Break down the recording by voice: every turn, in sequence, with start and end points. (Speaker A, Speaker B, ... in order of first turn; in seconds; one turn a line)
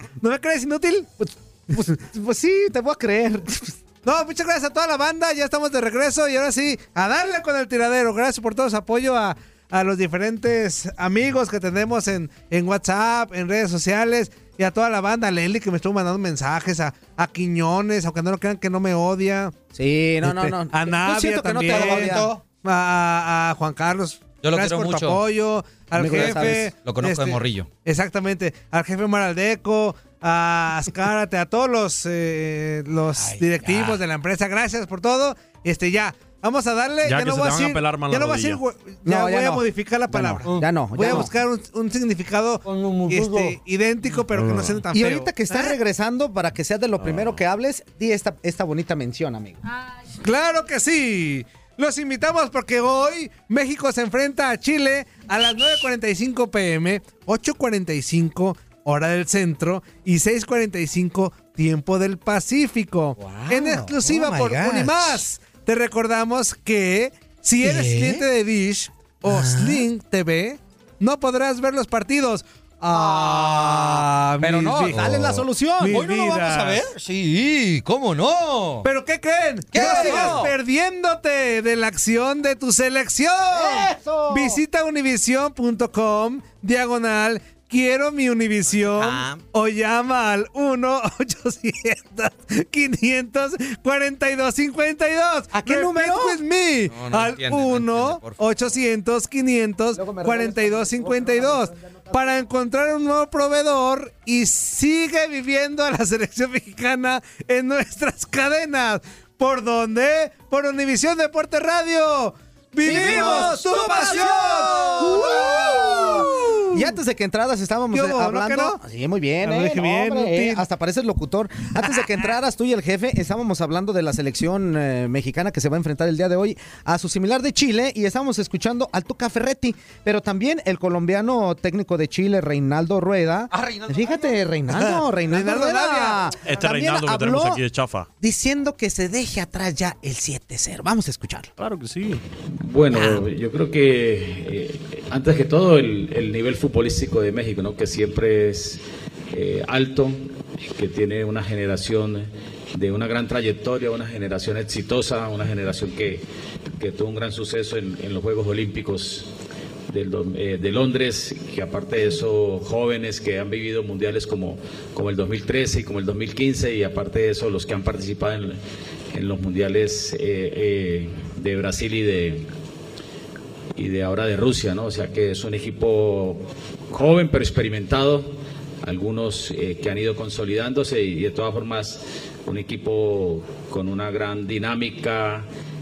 Speaker A: 0.2-1.9
Speaker B: 1.7-3.8
Speaker A: 4.0-19.5
Speaker B: 19.7-22.3
Speaker A: 20.2-45.8
Speaker C: 21.7-22.4
Speaker C: 24.4-25.2
Speaker B: 26.0-26.7
Speaker C: 26.0-27.7
Speaker C: 33.2-34.0
Speaker D: 37.0-38.6
Speaker B: 39.0-41.3
Speaker C: 40.5-41.2
Speaker C: 42.7-43.6
Speaker D: 44.3-44.8
Speaker B: 44.9-49.6
Speaker D: 47.0-47.4
Speaker A: 50.2-75.3
Speaker C: 63.2-65.2
Speaker B: 63.2-63.9
Speaker C: 67.6-68.2
Speaker C: 69.3-69.8
Speaker C: 72.9-73.9
Speaker B: 73.2-73.9
Speaker B: 74.4-76.0
Speaker C: 74.9-78.9
Speaker A: 75.8-76.8
Speaker A: 78.8-116.9
Speaker C: 79.7-80.5
Speaker B: 79.7-80.5
Speaker B: 83.5-84.6
Speaker C: 88.7-89.4
Speaker B: 95.5-96.4
Speaker C: 96.9-98.8
Speaker B: 99.9-102.4
Speaker C: 112.8-115.5
Speaker B: 112.8-137.6
Speaker A: 117.9-118.8
Speaker A: 119.4-120.6
Speaker A: 121.8-122.2
Speaker C: 133.5-134.3
Speaker A: 134.7-136.2
Speaker D: 136.5-138.1
Speaker B: 138.2-141.5
Speaker D: 141.6-142.2
Speaker E: 142.5-156.2
Speaker B: 142.9-143.2
Speaker E: 156.8-159.3
Speaker E: 159.9-172.5
Speaker E: 173.8-185.5